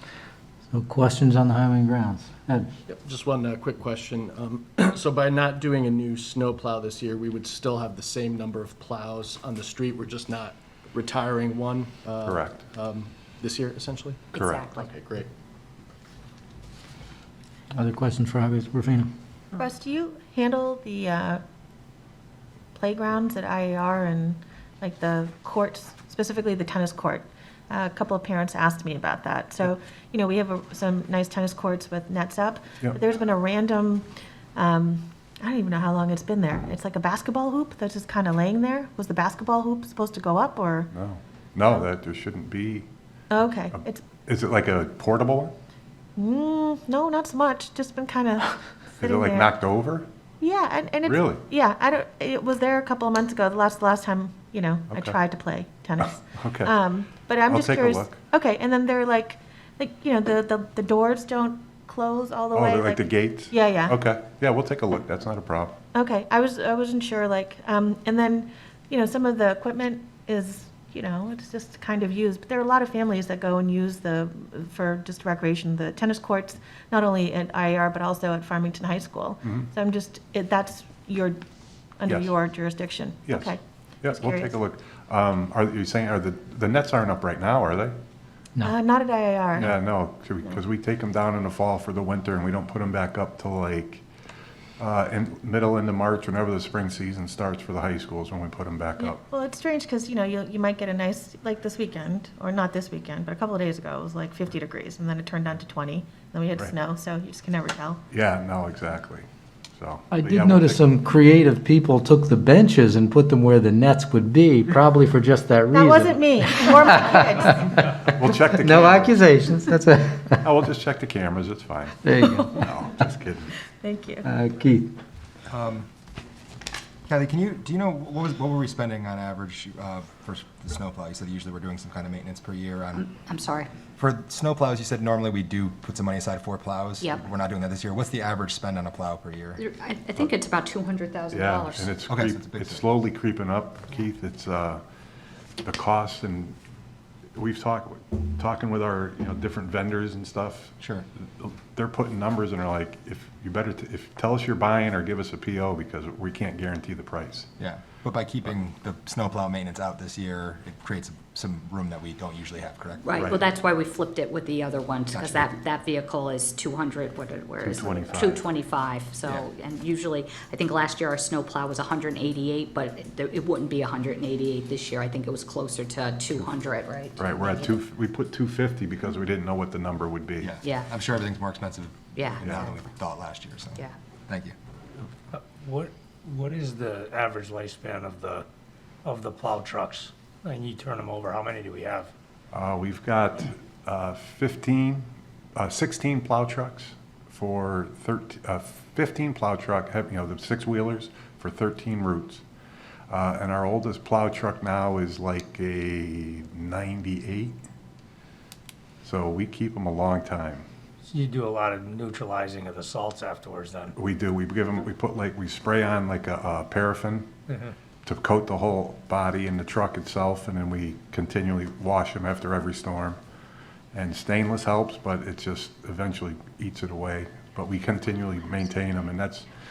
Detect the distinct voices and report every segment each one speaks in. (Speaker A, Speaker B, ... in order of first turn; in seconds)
Speaker A: 0.7-2.7, 17.7-19.1, 110.1-117.9, 118.5-120.5, 122.0-122.6, 124.2-124.9
Speaker B: 2.9-15.3
Speaker C: 12.2-12.6, 14.3-14.6, 40.9-42.9, 43.5-45.5, 49.0-50.1, 51.0-51.4, 54.9-55.2, 56.2-56.7, 57.5-58.2, 62.5-65.8, 82.1-82.3, 83.3-87.9, 89.6-94.0, 94.8-99.2, 108.1-109.2, 109.8-111.0, 118.0-119.3, 120.4-123.5, 141.3-144.8, 145.6-146.6, 147.3-150.7, 151.4-157.5, 163.1-163.4, 167.6-168.5, 177.2-180.5, 192.5-202.4, 203.1-207.5, 209.0-210.7, 213.9-217.3, 218.0-223.2, 223.9-229.4
Speaker D: 14.3-14.9, 132.9-133.7, 139.6-141.9, 163.0-177.7, 180.6-180.9, 182.1-182.7
Speaker E: 19.5-21.4, 22.7-40.9, 43.3-44.0, 46.1-49.6, 50.4-64.0, 65.9-81.4, 82.0-84.6, 88.6-89.8, 99.0-108.0, 115.7-117.8, 123.7-124.3
Speaker F: 125.5-125.9, 127.1-133.1, 134.0-139.6, 142.1-142.8, 150.8-151.1, 157.6-163.1, 165.1-165.5, 180.4-184.5
Speaker G: 185.3-188.4, 189.0-192.1, 211.0-213.9, 217.5-217.7